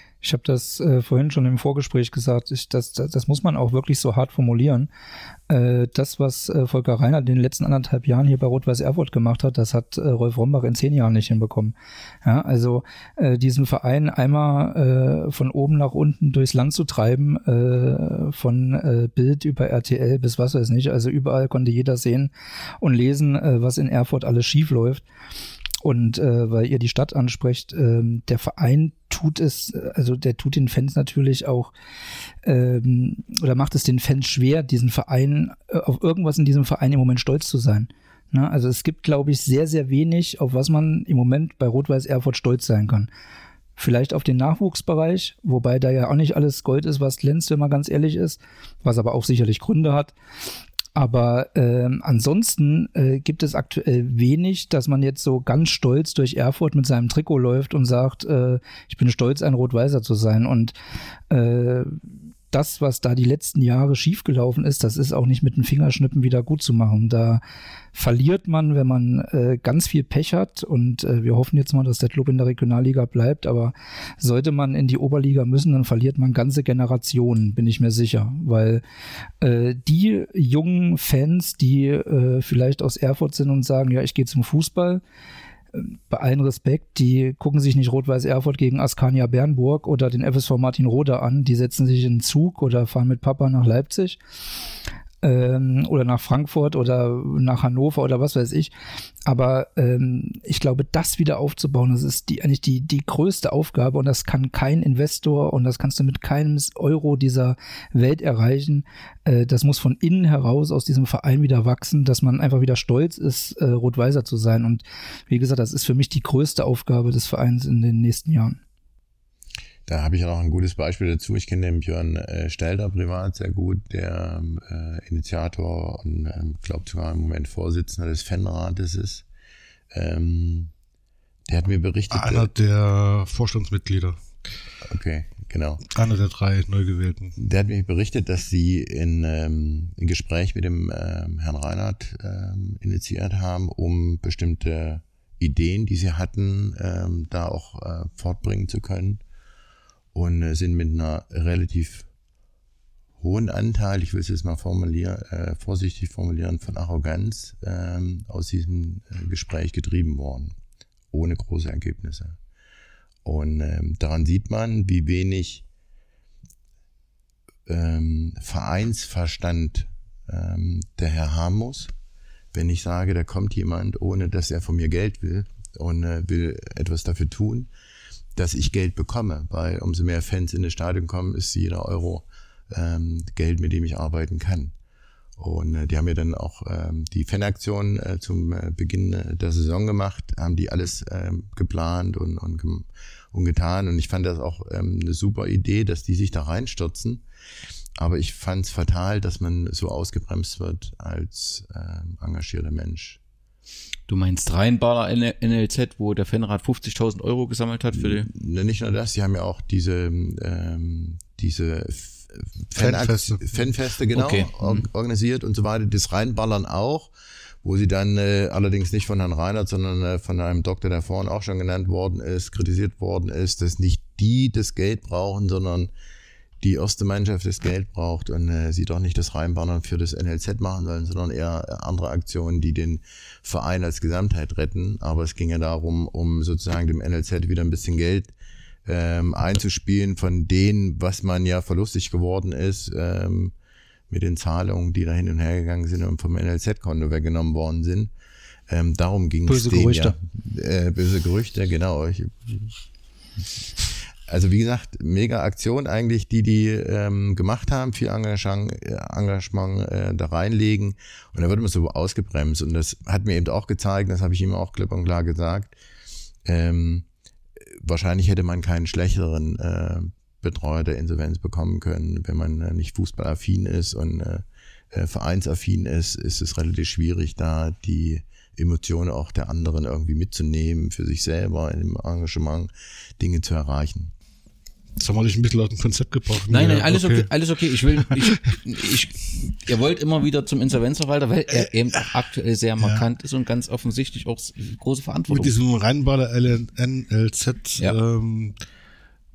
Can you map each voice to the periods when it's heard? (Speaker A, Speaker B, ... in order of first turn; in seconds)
Speaker A: 0.2-4.9, 5.5-25.0, 25.8-31.7, 32.4-43.1, 43.8-50.1, 50.9-60.7, 61.3-62.0, 62.5-67.4, 67.9-78.8, 79.4-85.0, 85.7-94.2, 95.2-98.7, 99.2-118.6, 249.5-250.1
Speaker B: 119.9-129.2, 129.9-130.7, 131.5-132.5, 134.8-135.8, 137.4-149.2, 150.1-152.1, 153.2-160.5, 161.1-162.4, 163.2-165.6, 167.7-171.9, 172.5-177.7, 178.3-184.7, 185.4-197.2, 198.0-203.2, 207.9-217.1, 217.6-225.9, 226.6-238.3, 238.8-243.5, 244.1-248.1, 248.7-252.8, 254.3-265.8, 266.4-267.1, 267.8-284.1
Speaker C: 132.1-134.2, 135.9-137.3, 212.8-213.4, 285.0-287.3, 288.0-288.6, 291.5-292.1, 292.8-293.1, 295.3-298.5
Speaker D: 204.1-208.3, 214.1-214.8, 286.5-295.5